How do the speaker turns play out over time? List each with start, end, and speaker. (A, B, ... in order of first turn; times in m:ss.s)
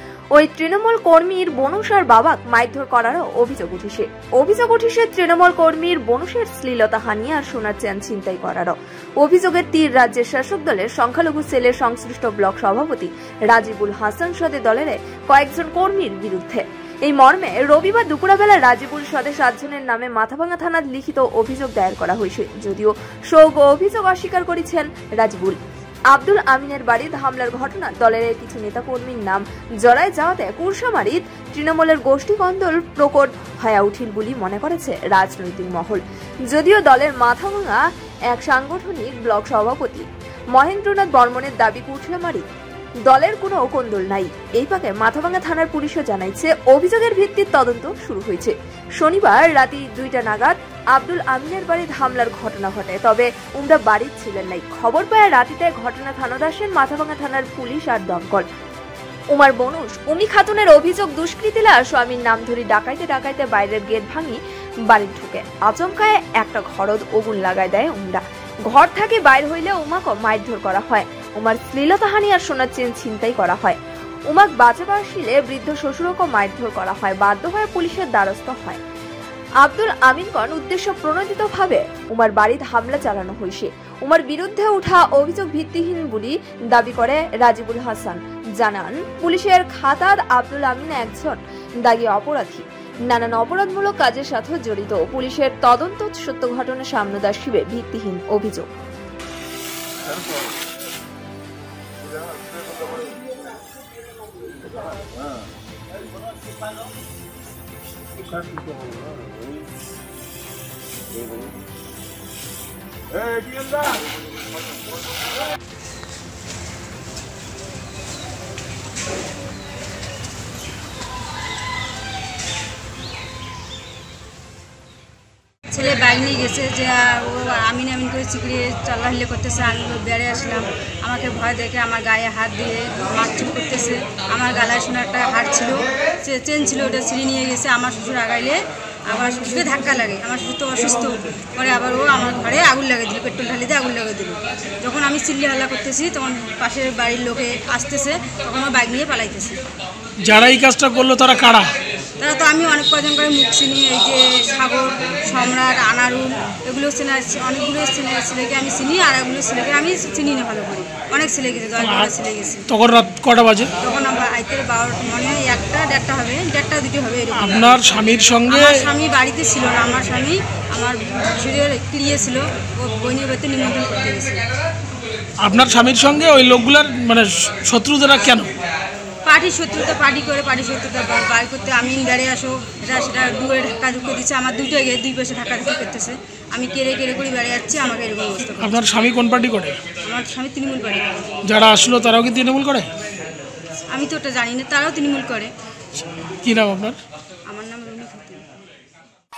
0:00.4-0:25.6 A
0:26.1-0:42.5 A
0:43.1-0:58.5 A
0:59.3-1:04.4 A
1:04.9-1:13.8 A
1:14.3-1:18.8 A
1:19.6-1:38.7 A
2:05.7-2:29.6 B
2:30.3-2:31.7 C
2:32.2-2:42.7 B
2:42.8-2:43.7 C
2:43.8-2:47.8 B
2:47.6-2:48.7 C
2:48.5-2:54.4 B
2:55.5-2:58.5 C
2:59.2-3:08.9 B
3:09.1-3:09.8 C
3:10.0-3:11.3 B
3:11.6-3:12.9 C
3:13.9-3:15.5 B
3:16.4-3:17.0 C
3:17.5-3:18.4 B